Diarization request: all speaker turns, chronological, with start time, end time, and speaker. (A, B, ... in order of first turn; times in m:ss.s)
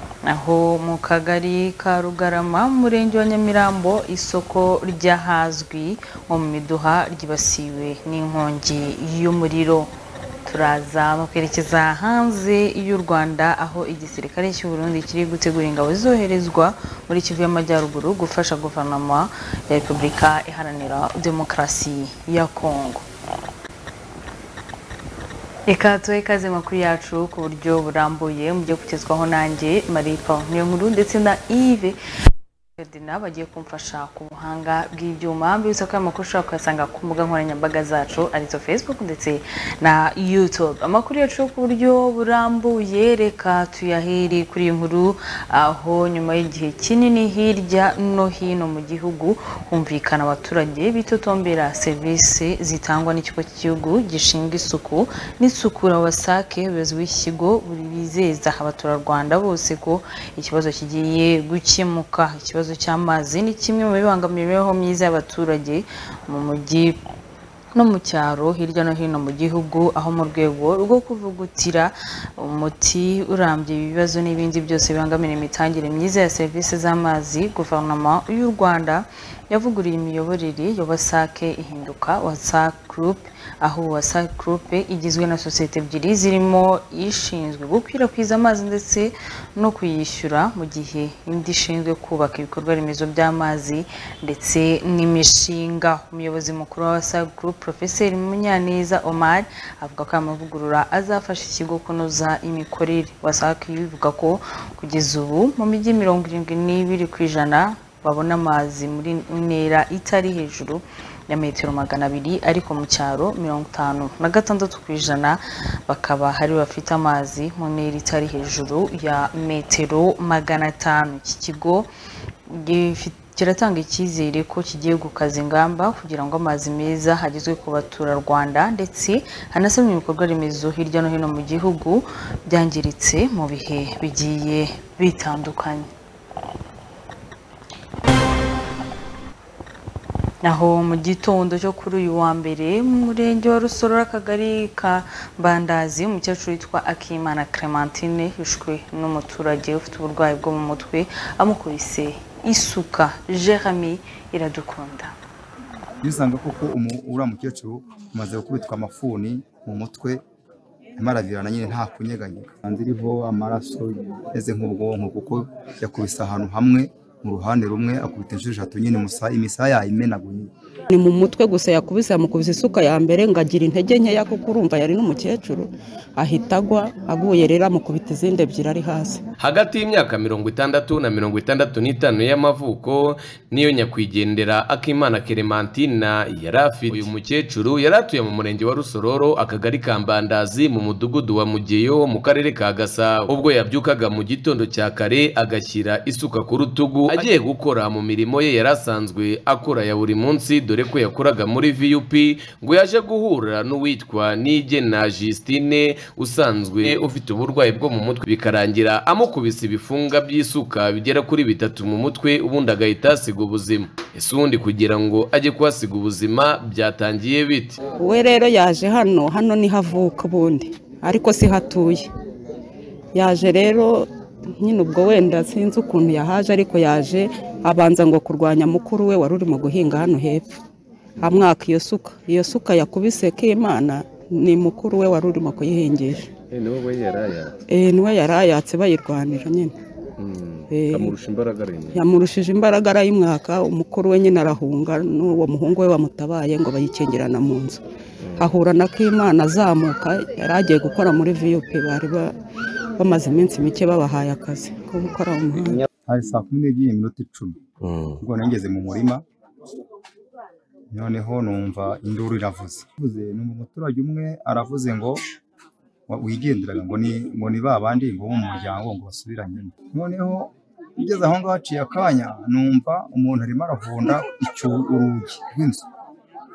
0:00.2-0:09.9 A
0:10.4-0:23.0 A
0:25.7-0:32.0 A
0:32.8-1:07.0 A
1:07.7-2:01.9 A
2:02.5-2:15.9 A
2:20.4-2:35.1 A
2:36.0-2:40.2 B
2:41.0-2:50.5 B
2:50.9-2:59.2 C
2:59.4-3:37.8 D
3:38.0-3:42.1 C
3:43.1-3:50.5 C
3:51.2-3:56.3 C
3:56.6-3:57.5 D
3:57.7-3:59.7 C
4:00.2-4:02.0 D
4:00.7-4:01.2 C
4:01.9-4:07.8 C
4:08.4-4:12.3 C
4:13.0-4:15.8 C
4:16.0-4:17.6 B
4:17.8-4:18.1 D
4:18.2-4:19.2 B
4:20.9-4:25.2 B
4:26.1-4:35.9 B